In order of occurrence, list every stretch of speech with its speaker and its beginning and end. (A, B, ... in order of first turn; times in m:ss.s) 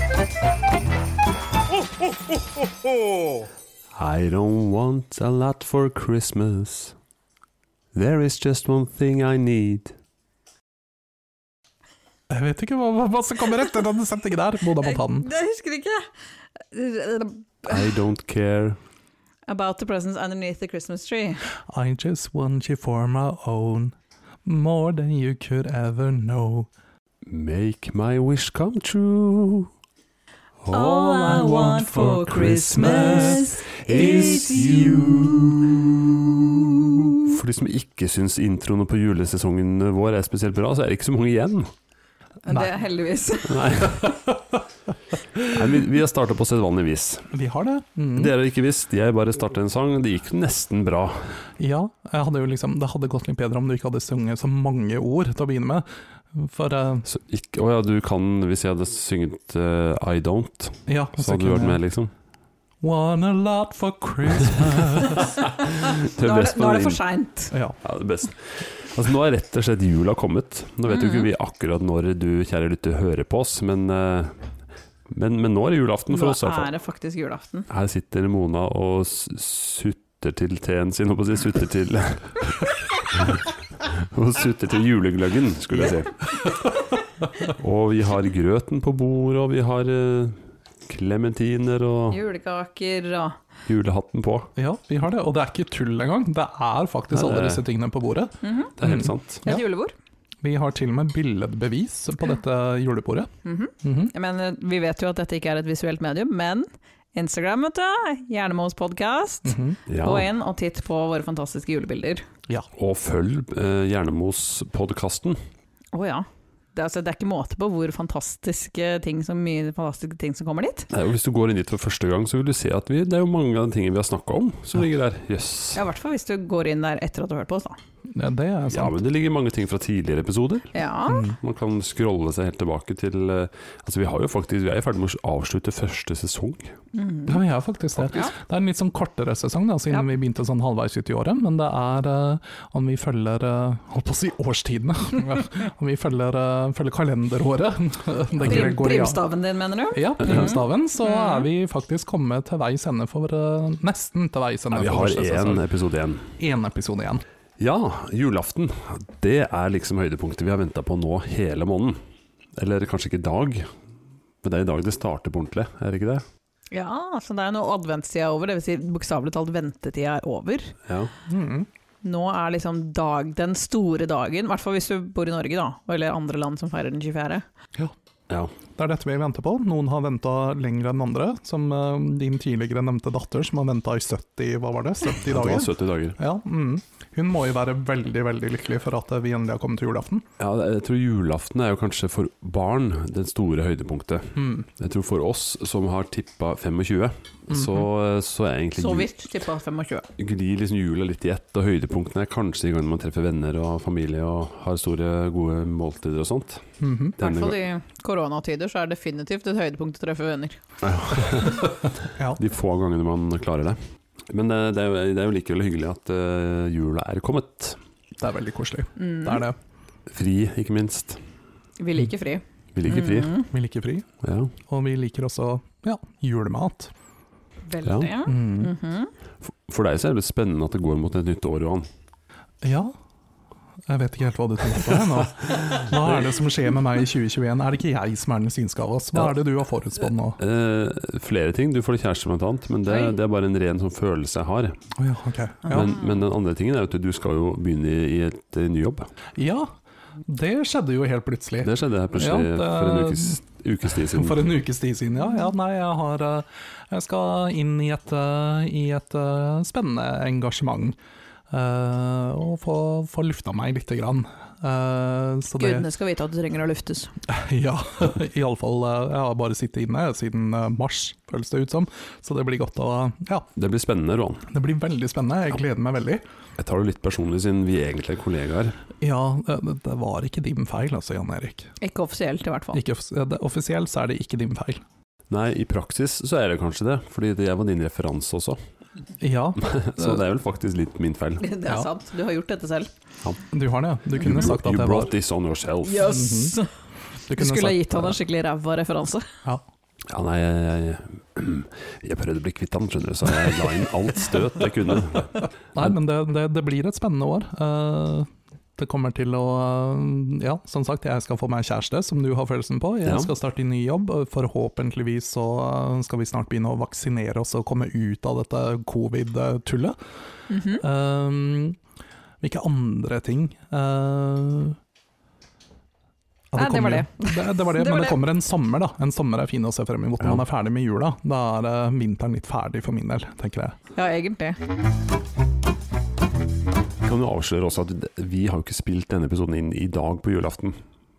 0:04.0-0:07.0 A
0:07.9-0:09.9 A
0:12.3-0:15.3 B
0:14.8-0:16.1 C
0:16.7-0:17.9 C
0:17.6-0:18.8 A
0:19.5-0:21.5 C
0:21.7-0:26.7 B
0:27.2-0:29.7 A
0:30.6-0:36.3 A
0:30.7-0:35.6 C
0:31.0-0:35.1 B
0:36.3-0:37.2 C
0:37.2-0:41.7 A
0:42.4-0:43.8 C
0:43.4-0:44.2 A
0:45.4-0:47.3 A
0:47.3-0:48.3 B
0:48.2-0:51.3 A
0:51.6-0:57.1 B
0:57.1-1:02.1 A
1:00.9-1:01.8 B
1:02.8-1:05.3 B
1:05.5-1:07.0 A
1:06.2-1:07.5 C
1:07.5-1:07.8 B
1:07.8-1:14.4 A
1:10.9-1:11.3 C
1:15.1-1:16.7 A
1:16.1-1:17.6 C
1:17.7-1:26.5 A
1:27.4-1:32.2 A
1:32.1-1:33.4 C
1:33.6-1:34.5 A
1:34.6-1:39.6 B
1:37.1-1:37.6 A
1:38.4-1:38.7 C
1:38.8-1:39.4 A
1:39.4-1:39.9 C
1:40.4-1:43.3 B
1:43.4-1:52.2 C
1:43.8-1:44.1 B
1:49.4-1:49.8 B
1:49.9-1:50.3 A
1:52.8-1:55.4 A
1:55.9-2:00.9 C
2:00.9-2:05.8 A
2:05.7-2:07.8 C
2:08.1-2:08.9 B
2:08.7-2:10.7 A
2:10.7-2:11.3 C
2:11.1-2:11.4 B
2:11.4-2:16.8 A
2:16.9-2:17.4 C
2:17.2-2:29.2 B
2:28.4-2:31.5 C
2:29.9-2:35.6 B
2:34.7-2:36.3 A
2:36.4-2:37.2 B
2:37.6-2:42.0 A
2:42.6-2:43.7 A
2:44.4-2:46.2 A
2:46.7-2:50.7 C
2:50.8-2:51.1 A
2:51.3-2:51.7 B
2:52.0-2:57.4 C
2:58.8-3:10.2 B
3:05.2-3:06.2 A
3:10.4-3:19.1 A
3:14.4-3:14.7 B
3:17.5-3:17.9 B
3:18.8-3:20.1 C
3:20.2-3:26.6 A
3:26.8-3:27.2 B
3:27.2-3:27.6 A
3:27.2-3:30.6 C
3:30.8-3:33.8 A
3:34.3-3:37.8 A
3:38.2-3:39.6 B
3:39.0-3:39.4 C
3:40.1-3:41.2 A
3:41.8-3:43.5 C
3:42.7-3:43.4 A
3:43.5-3:44.1 B
3:44.2-3:44.5 A
3:44.7-3:46.9 B
3:47.7-3:49.1 C
3:47.8-3:48.1 A
3:48.2-3:48.7 B
3:49.4-3:51.9 A
3:52.6-3:52.9 B
3:53.9-4:00.4 B
4:00.4-4:04.8 A
4:05.0-4:05.9 B
4:05.6-4:06.1 C
4:05.7-4:09.1 A
4:09.4-4:09.7 B
4:10.2-4:13.4 B
4:11.6-4:14.5 A
4:13.9-4:21.0 B
4:21.5-4:25.8 B
4:25.6-4:27.1 C
4:27.3-4:33.5 B
4:33.6-4:34.4 A
4:34.5-4:36.2 B
4:36.6-4:38.8 A
4:39.0-4:41.7 B
4:41.8-4:42.8 C
4:42.7-4:44.8 B
4:45.3-4:48.6 A
4:49.2-4:50.2 B
4:49.6-4:51.4 A
4:51.4-4:52.9 C
4:53.5-4:55.1 B
4:54.2-4:56.1 A
4:55.8-4:56.7 C
4:56.0-4:56.6 B
4:57.3-4:58.2 B
4:57.3-4:59.3 C
5:00.1-5:05.9 A
5:05.7-5:20.0 B
5:13.0-5:13.3 A
5:20.5-5:20.8 C
5:20.8-5:21.8 B
5:22.4-5:24.8 B
5:26.5-5:33.8 B
5:26.6-5:28.2 C
5:33.9-5:34.6 C
5:37.0-5:40.8 A